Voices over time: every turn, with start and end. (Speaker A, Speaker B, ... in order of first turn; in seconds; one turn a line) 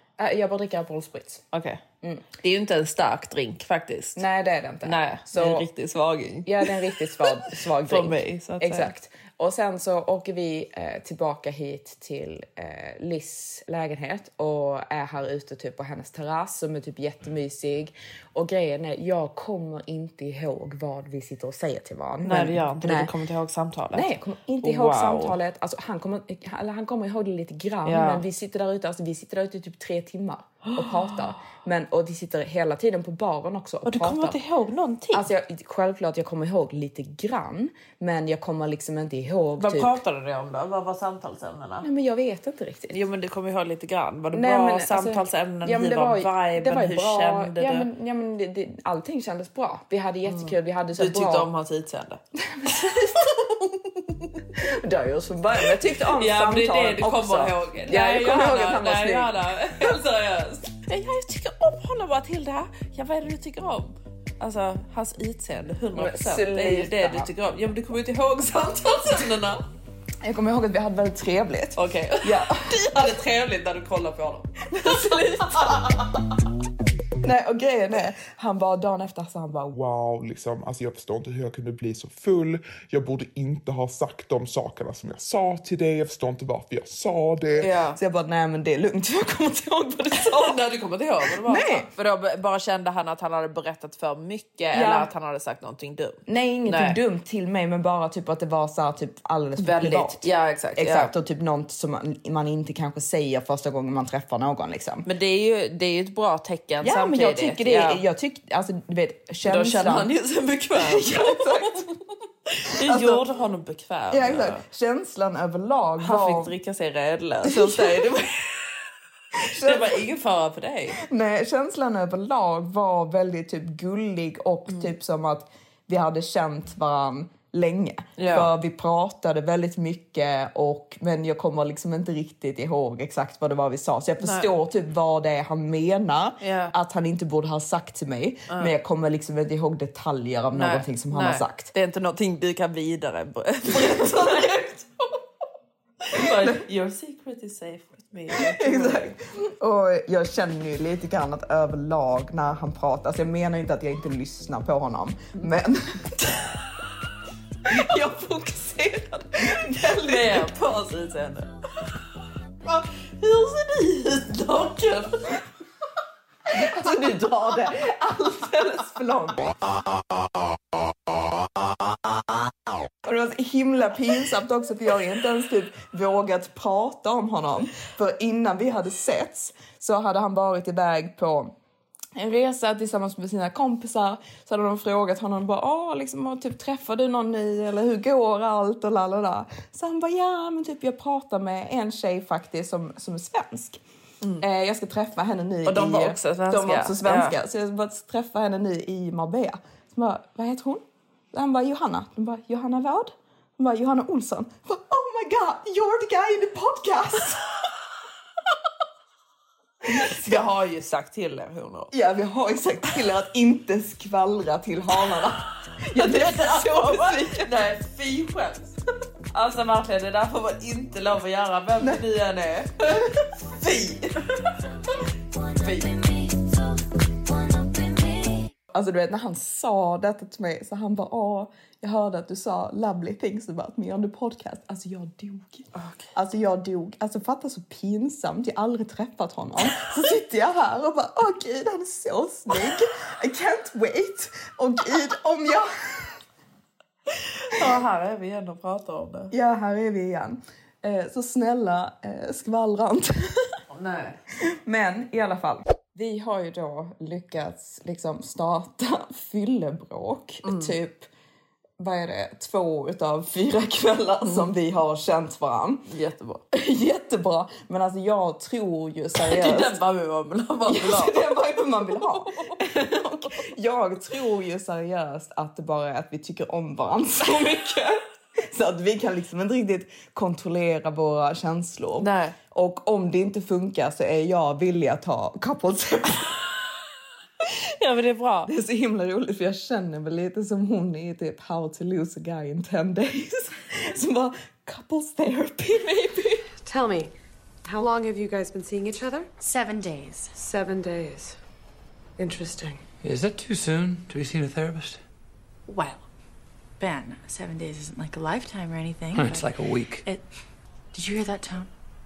Speaker A: 0.2-1.4
Speaker B: 1.5-1.8
Speaker B: 2.4-4.2
Speaker A: 4.2-5.7
Speaker B: 4.8-6.5
Speaker A: 6.4-23.1
Speaker B: 7.8-8.9
Speaker B: 22.2-25.4
Speaker A: 23.9-34.4
Speaker B: 27.8-28.2
Speaker B: 30.6-31.1
Speaker B: 33.8-35.3
Speaker A: 35.1-40.0
Speaker B: 39.6-41.9
Speaker A: 41.8-43.0
Speaker B: 42.9-47.9
Speaker A: 44.3-51.5
Speaker B: 50.3-53.3
Speaker A: 52.4-53.5
Speaker A: 54.5-60.0
Speaker B: 55.7-69.6
Speaker A: 65.9-67.3
Speaker A: 70.2-72.9
Speaker B: 71.8-76.2
Speaker A: 74.7-76.1
Speaker A: 77.2-79.7
Speaker C: 79.8-87.6
Speaker B: 87.6-88.0
Speaker A: 87.9-90.6
Speaker B: 90.1-97.0
Speaker A: 91.2-91.9
Speaker A: 94.7-95.1
Speaker A: 96.2-105.1
Speaker B: 99.6-101.1
Speaker B: 105.0-108.0
Speaker A: 106.8-110.1
Speaker B: 109.4-111.8
Speaker A: 110.8-111.9
Speaker B: 112.6-114.6
Speaker A: 112.7-113.2
Speaker A: 114.1-116.5
Speaker B: 116.0-118.8
Speaker A: 117.4-118.1
Speaker B: 119.5-121.0
Speaker A: 119.5-120.0
Speaker A: 121.0-141.7
Speaker B: 128.2-128.5
Speaker B: 134.2-134.5
Speaker B: 136.4-136.7
Speaker B: 140.5-144.8
Speaker A: 143.7-144.5
Speaker B: 146.1-149.1
Speaker A: 148.3-156.1
Speaker B: 157.7-161.5
Speaker A: 159.4-160.5
Speaker B: 162.6-165.4
Speaker A: 166.5-169.6
Speaker B: 166.6-167.3
Speaker A: 173.0-181.5
Speaker A: 182.2-193.8
Speaker A: 194.4-207.4
Speaker B: 195.7-197.4
Speaker B: 209.9-211.9
Speaker A: 209.9-210.4
Speaker A: 211.9-217.5
Speaker B: 215.9-218.7
Speaker B: 219.3-223.1
Speaker A: 223.6-224.0
Speaker B: 223.7-224.0
Speaker B: 225.5-226.7
Speaker B: 227.2-228.5
Speaker A: 228.7-246.2
Speaker B: 235.7-236.1
Speaker B: 247.2-249.3
Speaker A: 249.3-253.5
Speaker B: 253.7-254.2
Speaker A: 254.4-261.1
Speaker B: 260.4-260.7
Speaker A: 261.8-265.9
Speaker B: 264.2-264.5
Speaker B: 265.9-266.4
Speaker A: 266.5-269.8
Speaker B: 269.2-272.9
Speaker A: 270.6-286.4
Speaker B: 277.2-277.9
Speaker B: 282.0-282.4
Speaker B: 287.8-288.5
Speaker A: 288.5-296.5
Speaker D: 296.6-297.1
Speaker D: 297.6-301.4
Speaker D: 302.2-302.8
Speaker E: 303.0-305.0
Speaker F: 305.7-306.0
Speaker F: 306.8-311.7
Speaker E: 309.1-310.1